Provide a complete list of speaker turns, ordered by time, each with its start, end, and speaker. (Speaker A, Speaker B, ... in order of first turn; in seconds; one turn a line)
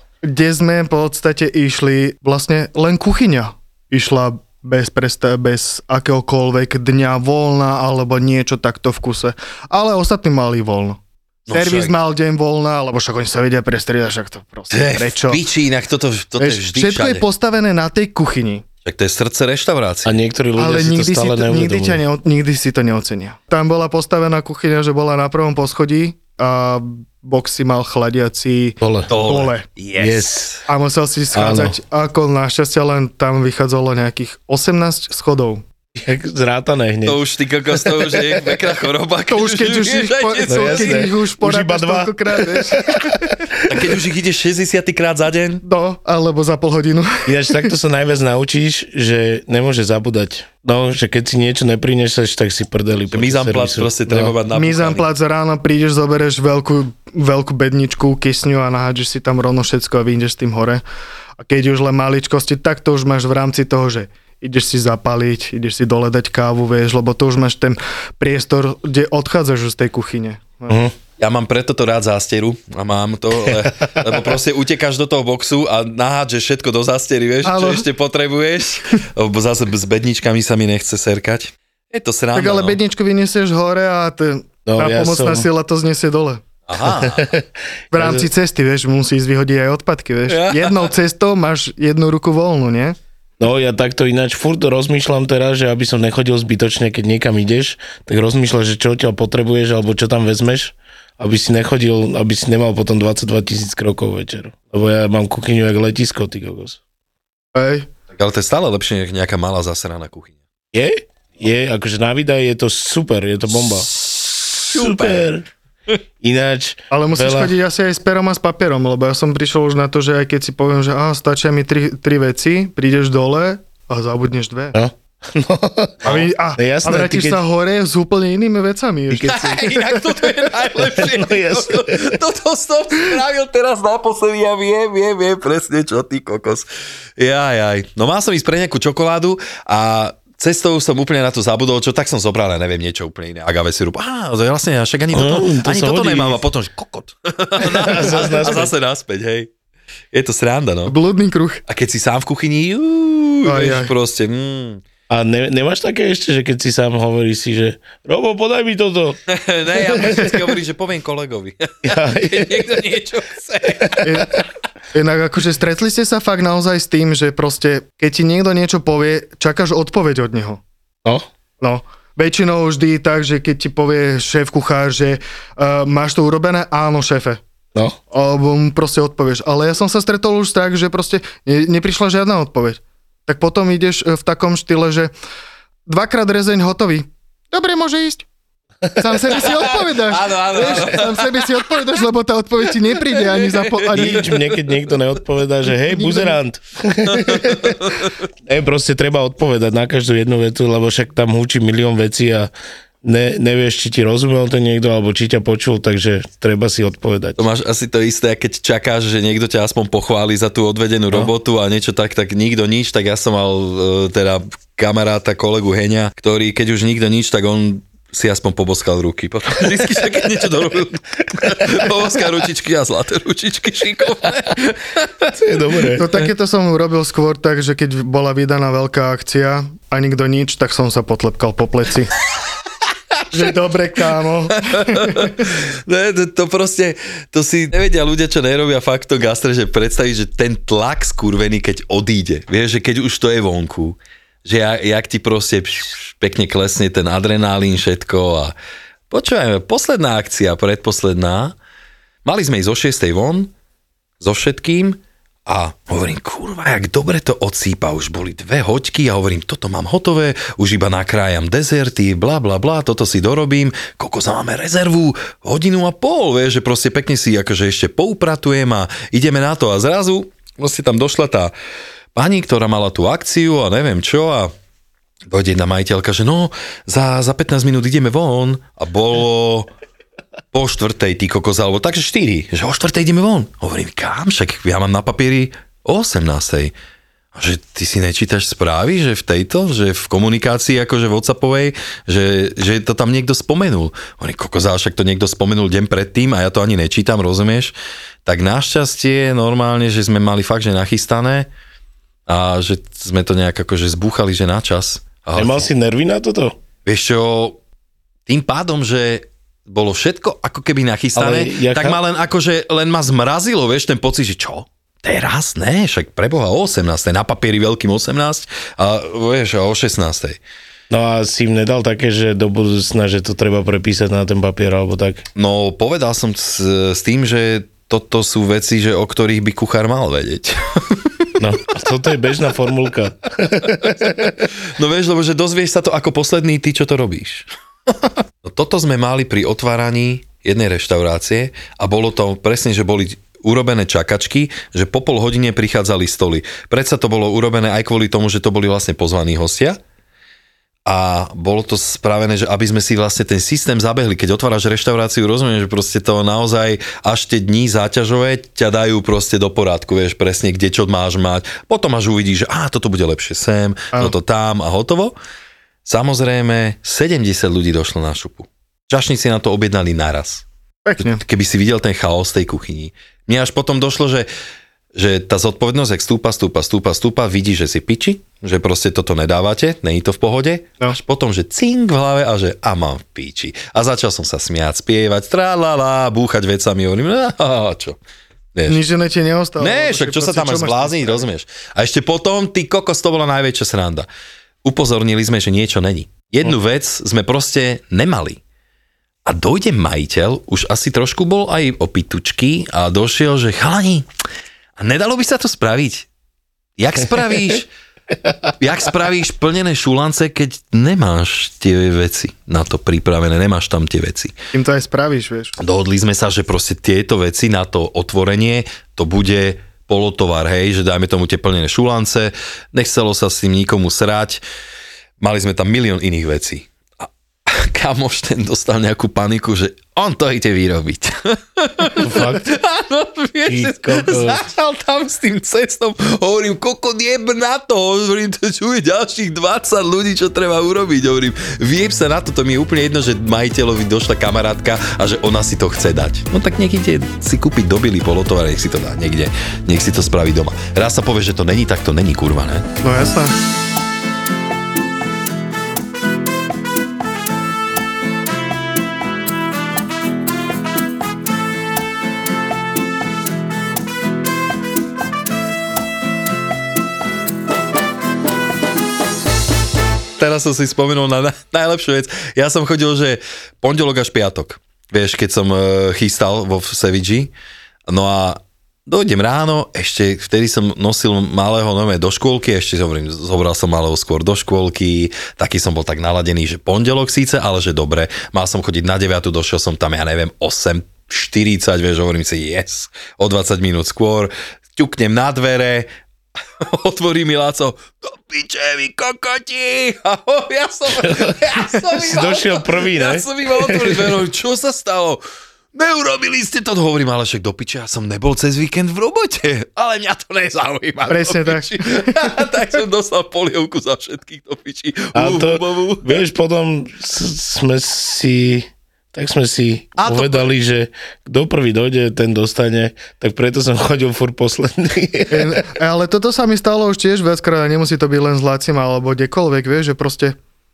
Speaker A: 0.2-15.4
Speaker B: 11.5-12.0
Speaker B: 14.7-17.2
Speaker A: 16.4-18.6
Speaker B: 18.9-20.1
Speaker C: 20.1-22.0
Speaker A: 20.6-29.7
Speaker C: 28.8-29.1
Speaker B: 29.1-30.6
Speaker C: 30.0-30.6
Speaker A: 30.7-35.6
Speaker C: 31.3-31.8
Speaker C: 36.0-37.2
Speaker B: 37.0-41.1
Speaker C: 37.9-38.2
Speaker A: 39.3-43.4
Speaker C: 40.5-43.0
Speaker B: 43.7-45.6
Speaker A: 45.6-47.3
Speaker C: 47.3-54.3
Speaker B: 53.1-55.1
Speaker A: 54.5-60.8
Speaker A: 61.4-70.8
Speaker C: 70.7-70.9
Speaker B: 71.2-82.8
Speaker A: 77.4-77.9
Speaker A: 82.3-86.4
Speaker C: 84.7-85.5
Speaker B: 86.7-87.3
Speaker C: 86.9-88.3
Speaker A: 87.9-93.0
Speaker B: 90.3-90.9
Speaker C: 93.4-106.8
Speaker A: 107.5-107.9
Speaker B: 108.2-110.3
Speaker C: 110.7-113.9
Speaker B: 113.9-115.3
Speaker C: 114.7-115.5
Speaker C: 116.2-117.5
Speaker A: 116.9-124.8
Speaker C: 124.7-127.5
Speaker B: 126.0-126.3
Speaker A: 126.0-130.0
Speaker C: 129.1-129.7
Speaker B: 129.2-136.7
Speaker C: 130.8-132.2
Speaker B: 137.2-149.5
Speaker C: 145.1-146.4
Speaker C: 147.6-148.7
Speaker B: 150.1-150.9
Speaker A: 150.8-151.6
Speaker B: 151.7-154.8
Speaker A: 153.4-153.9
Speaker C: 155.1-159.2
Speaker B: 159.3-164.1
Speaker C: 161.8-162.7
Speaker C: 163.8-164.1
Speaker A: 164.0-164.4
Speaker A: 164.9-170.6
Speaker A: 171.6-177.4
Speaker A: 178.1-185.1
Speaker A: 185.9-188.3
Speaker A: 189.0-194.3
Speaker B: 189.4-191.7
Speaker B: 193.1-194.5
Speaker C: 193.9-197.9
Speaker A: 195.9-196.4
Speaker B: 197.2-198.1
Speaker C: 198.4-202.5
Speaker C: 203.0-207.4
Speaker B: 207.4-225.3
Speaker C: 225.4-226.1
Speaker A: 226.0-232.1
Speaker A: 233.3-235.5
Speaker B: 234.6-248.5
Speaker B: 249.1-251.6
Speaker B: 252.2-253.5
Speaker B: 254.2-271.5
Speaker B: 272.1-274.5
Speaker B: 275.3-279.7
Speaker B: 280.5-286.7
Speaker B: 287.4-297.7
Speaker B: 298.2-301.5
Speaker B: 302.3-305.7
Speaker C: 305.4-306.6
Speaker B: 306.9-307.6
Speaker B: 308.3-320.4
Speaker C: 311.1-312.0
Speaker C: 320.9-325.2
Speaker B: 325.4-331.3
Speaker C: 331.4-334.4
Speaker B: 334.8-349.8
Speaker B: 350.9-365.1
Speaker B: 365.9-370.4
Speaker A: 370.9-371.2
Speaker B: 371.0-374.3
Speaker B: 374.9-388.0
Speaker B: 388.6-388.8
Speaker A: 388.7-391.2
Speaker B: 389.6-394.1
Speaker B: 394.6-398.4
Speaker B: 399.2-404.1
Speaker B: 404.8-406.1
Speaker B: 406.8-407.7
Speaker B: 408.6-414.3
Speaker A: 414.5-415.6
Speaker B: 415.6-424.4
Speaker B: 425.2-452.7
Speaker C: 432.0-432.5
Speaker C: 433.5-434.4
Speaker A: 452.8-453.3
Speaker B: 470.2-477.3
Speaker B: 477.9-495.9
Speaker B: 496.6-505.2
Speaker C: 500.9-504.2
Speaker B: 505.7-516.2
Speaker A: 511.1-512.3
Speaker C: 515.1-525.6
Speaker B: 520.0-520.5
Speaker A: 525.3-530.4